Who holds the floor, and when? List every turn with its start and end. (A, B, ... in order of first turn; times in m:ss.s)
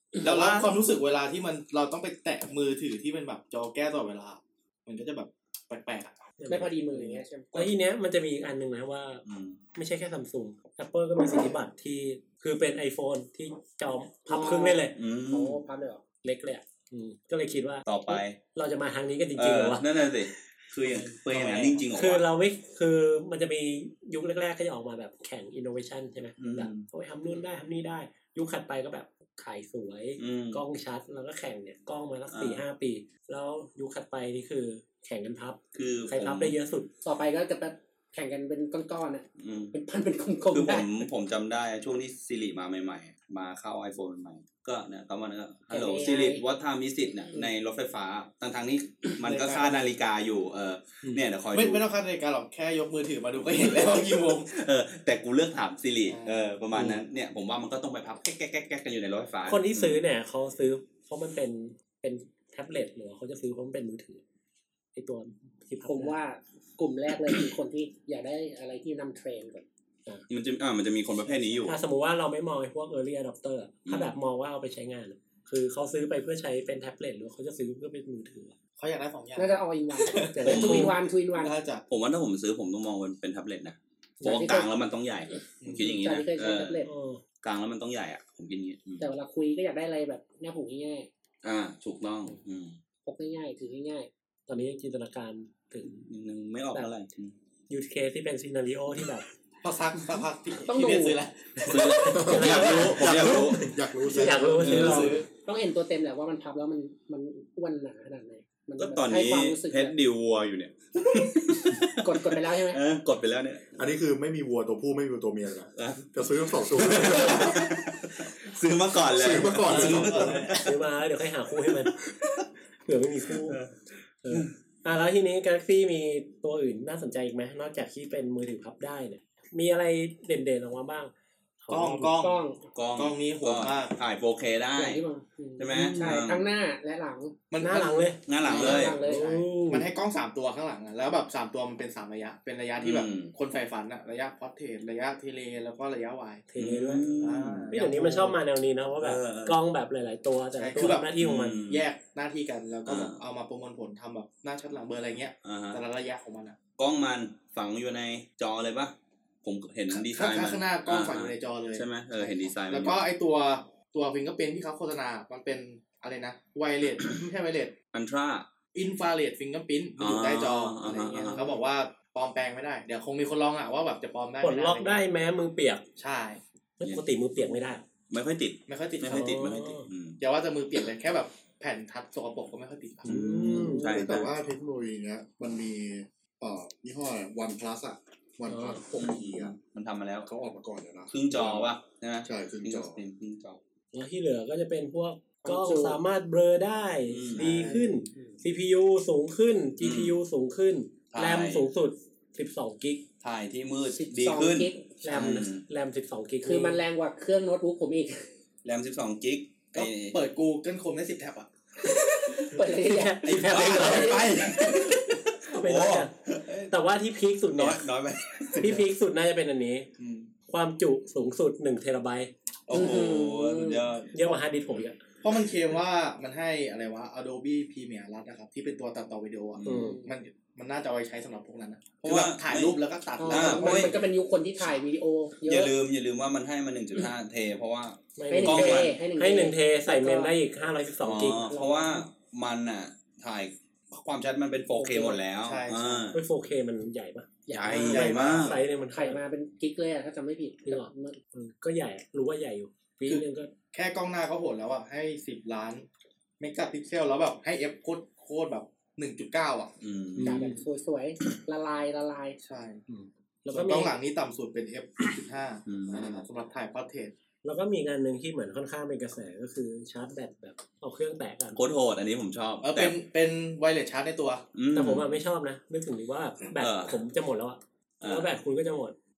0:00.2-0:06.2 A
0:06.4-0:09.2 B
0:06.5-0:07.7 C
0:09.3-0:09.6 D
0:09.8-0:15.0 B
0:14.3-0:16.1 C
0:15.0-0:15.6 D
0:16.2-0:19.8 B
0:17.9-0:18.4 D
0:19.4-0:22.2 D
0:21.0-0:21.9 A
0:21.9-0:36.9 B
0:26.4-0:26.8 D
0:30.2-0:30.6 D
0:32.3-0:32.6 D
0:35.7-0:36.6 D
0:37.0-0:40.9 C
0:39.4-0:39.8 D
0:40.5-0:51.8 D
0:45.7-0:46.4 C
0:49.2-0:50.0 A
0:51.5-0:54.5 A
0:53.8-1:00.0 D
0:56.1-0:56.4 A
0:56.7-0:57.0 B
0:59.5-1:04.2 B
1:05.0-1:06.2 B
1:05.9-1:09.6 C
1:10.3-1:11.8 D
1:11.6-1:18.6 B
1:13.9-1:14.1 D
1:18.8-1:21.9 A
1:19.4-1:21.6 C
1:20.4-1:21.0 D
1:20.5-1:21.0 B
1:21.9-1:26.9 D
1:24.2-1:24.7 C
1:25.6-1:26.0 A
1:25.7-1:26.9 C
1:26.8-1:27.2 B
1:27.4-1:29.1 D
1:29.0-1:31.1 C
1:31.4-1:32.8 D
1:33.0-1:34.1 C
1:34.5-1:36.1 B
1:36.0-1:37.3 D
1:37.7-1:39.2 B
1:39.6-1:42.4 A
1:40.7-1:41.2 C
1:41.7-1:43.7 D
1:41.9-1:43.3 B
1:42.1-1:44.8 E
1:44.1-1:45.2 B
1:44.2-1:45.3 A
1:44.6-1:45.2 D
1:45.4-1:49.9 C
1:48.8-1:53.7 D
1:52.0-1:52.8 C
1:53.8-1:57.7 E
1:55.8-1:56.1 D
1:56.7-2:00.8 D
1:59.1-2:00.5 E
1:59.7-2:00.4 A
2:00.5-2:01.9 B
2:02.9-2:03.6 B
2:03.4-2:03.8 D
2:04.2-2:12.2 B
2:11.7-2:12.4 A
2:12.2-2:12.6 C
2:12.7-2:15.0 D
2:13.0-2:14.0 A
2:14.8-2:17.5 C
2:15.6-2:16.5 D
2:17.5-2:18.9 A
2:17.6-2:19.9 B
2:18.3-2:19.0 D
2:18.4-2:19.5 C
2:19.7-2:26.4 A
2:22.8-2:23.3 D
2:26.5-2:27.0 B
2:26.6-2:27.7 D
2:27.1-2:28.4 A
2:27.7-2:31.6 B
2:29.0-2:29.6 D
2:30.6-2:36.6 A
2:31.2-2:31.8 D
2:32.9-2:33.2 D
2:35.4-2:35.8 D
2:36.8-2:43.0 D
2:39.9-2:47.8 A
2:47.9-2:48.5 D
2:48.8-2:55.0 A
2:50.0-2:51.4 D
2:54.4-2:55.8 B
2:56.0-2:56.4 A
2:56.8-2:57.8 B
2:58.1-3:00.2 D
2:58.7-2:59.5 A
2:59.1-2:59.9 B
3:00.2-3:03.2 A
3:03.0-3:03.9 B
3:03.0-3:04.3 D
3:03.8-3:09.6 E
3:08.5-3:08.8 B
3:09.0-3:10.3 D
3:10.2-3:13.0 E
3:11.1-3:13.6 D
3:13.9-3:23.0 B
3:15.4-3:16.0 C
3:17.1-3:17.8 D
3:17.4-3:18.0 A
3:19.8-3:20.2 D
3:21.1-3:21.7 D
3:23.2-3:25.6 D
3:23.9-3:25.3 C
3:25.0-3:26.8 B
3:26.4-3:28.3 C
3:28.6-3:30.2 D
3:29.7-3:32.5 A
3:32.5-3:34.2 C
3:32.5-3:34.2 B
3:33.2-3:36.7 D
3:33.6-3:34.0 A
3:35.5-3:36.1 B
3:36.7-3:37.8 B
3:37.6-3:38.9 D
3:38.6-3:39.9 B
3:40.5-3:42.3 B
3:42.7-3:44.4 D
3:42.7-3:43.8 C
3:44.1-3:45.0 B
3:45.2-3:54.0 A
3:49.6-3:49.9 D
3:49.6-3:50.0 B
3:49.7-3:50.1 C
3:52.0-3:54.0 D
3:53.2-3:55.7 C
3:55.4-3:59.0 D
3:58.2-4:01.6 B
3:58.3-4:00.3 C
4:01.0-4:06.2 D
4:01.5-4:02.0 C
4:04.8-4:05.2 C
4:05.4-4:06.2 A
4:06.1-4:09.2 B
4:07.5-4:08.6 D
4:07.5-4:08.0 C
4:07.9-4:08.6 A
4:08.9-4:11.2 C
4:10.7-4:13.5 B
4:13.1-4:15.9 A
4:16.4-4:19.7 A
4:19.8-4:20.5 D
4:20.2-4:20.6 B
4:20.2-4:22.4 C
4:22.4-4:22.8 A
4:22.9-4:24.0 B
4:23.5-4:27.1 A
4:25.7-4:26.2 D
4:27.4-4:31.6 B
4:31.6-4:33.0 D
4:32.6-4:34.4 A
4:34.6-4:35.2 D
4:34.7-4:39.0 B
4:36.6-4:37.0 D
4:38.0-4:38.3 D